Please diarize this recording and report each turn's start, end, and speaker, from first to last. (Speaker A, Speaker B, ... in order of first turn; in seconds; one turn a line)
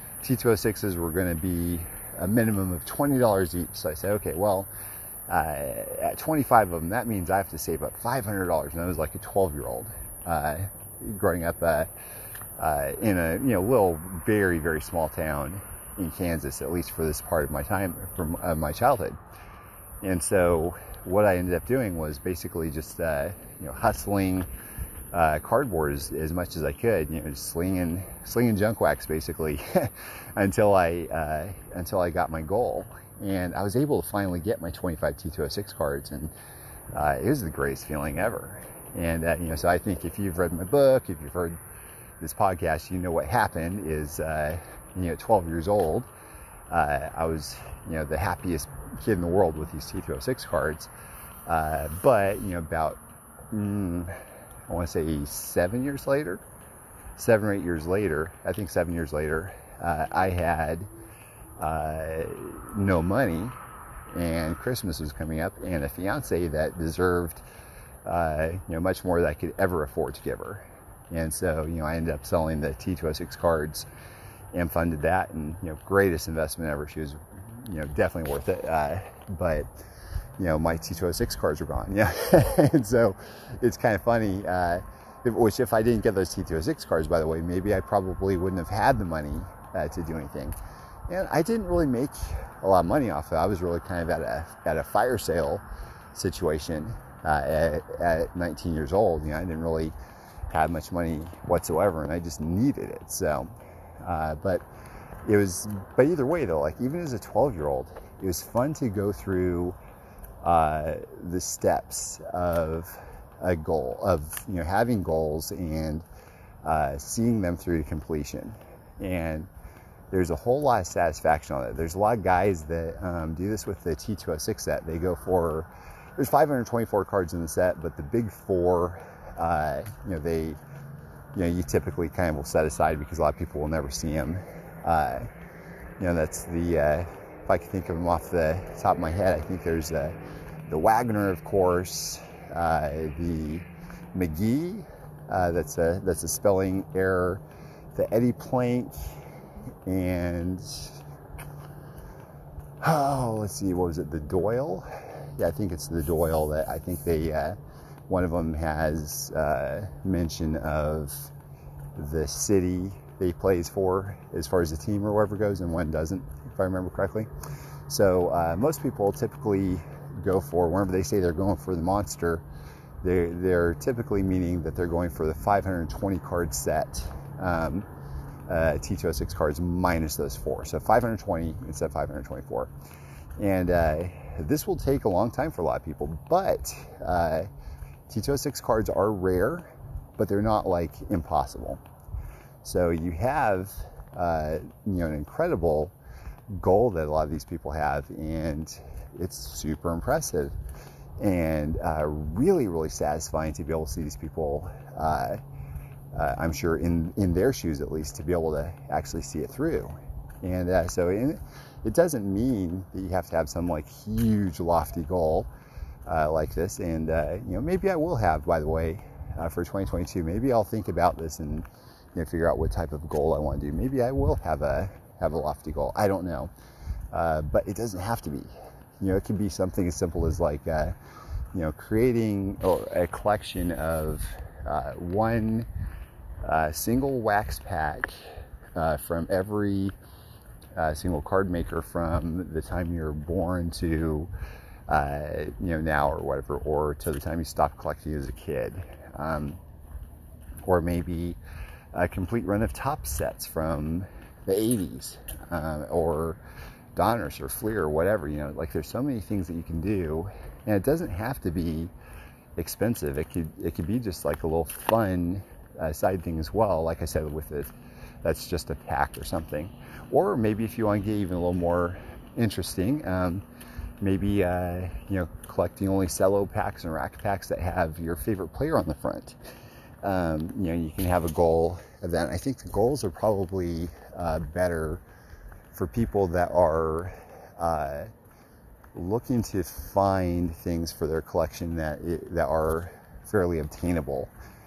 Speaker A: 0.2-4.7
Speaker A: 5.3-11.9
Speaker A: 12.6-19.2
Speaker A: 20.0-24.5
Speaker A: 25.1-36.3
Speaker A: 36.9-41.6
Speaker A: 42.2-46.1
Speaker A: 46.7-50.9
Speaker A: 51.5-53.0
Speaker A: 53.5-56.4
Speaker A: 57.2-60.9
Speaker A: 61.6-63.6
Speaker A: 64.1-67.5
Speaker A: 68.0-73.9
Speaker A: 74.5-79.7
Speaker A: 80.4-100.0
Speaker A: 100.5-104.6
Speaker A: 105.3-109.8
Speaker A: 110.4-116.0
Speaker A: 116.6-119.5
Speaker A: 120.1-130.6
Speaker A: 131.3-135.3
Speaker A: 136.0-147.4
Speaker A: 147.9-149.2
Speaker A: 149.9-151.0
Speaker A: 152.8-157.6
Speaker A: 158.1-161.3
Speaker A: 162.0-167.3
Speaker A: 167.9-172.4
Speaker A: 173.0-177.9
Speaker A: 178.5-182.7
Speaker A: 183.4-187.5
Speaker A: 188.1-191.8
Speaker A: 192.6-195.9
Speaker A: 196.5-200.6
Speaker A: 201.2-205.4
Speaker A: 206.1-215.5
Speaker A: 216.1-226.5
Speaker A: 227.1-231.0
Speaker A: 231.5-235.7
Speaker A: 236.4-238.2
Speaker A: 238.8-239.9
Speaker A: 240.8-244.3
Speaker A: 244.9-249.6
Speaker A: 250.6-251.4
Speaker A: 251.9-256.4
Speaker A: 256.9-261.9
Speaker A: 262.6-267.7
Speaker A: 268.2-273.4
Speaker A: 274.0-279.4
Speaker A: 280.0-285.0
Speaker A: 285.7-288.1
Speaker A: 288.9-294.3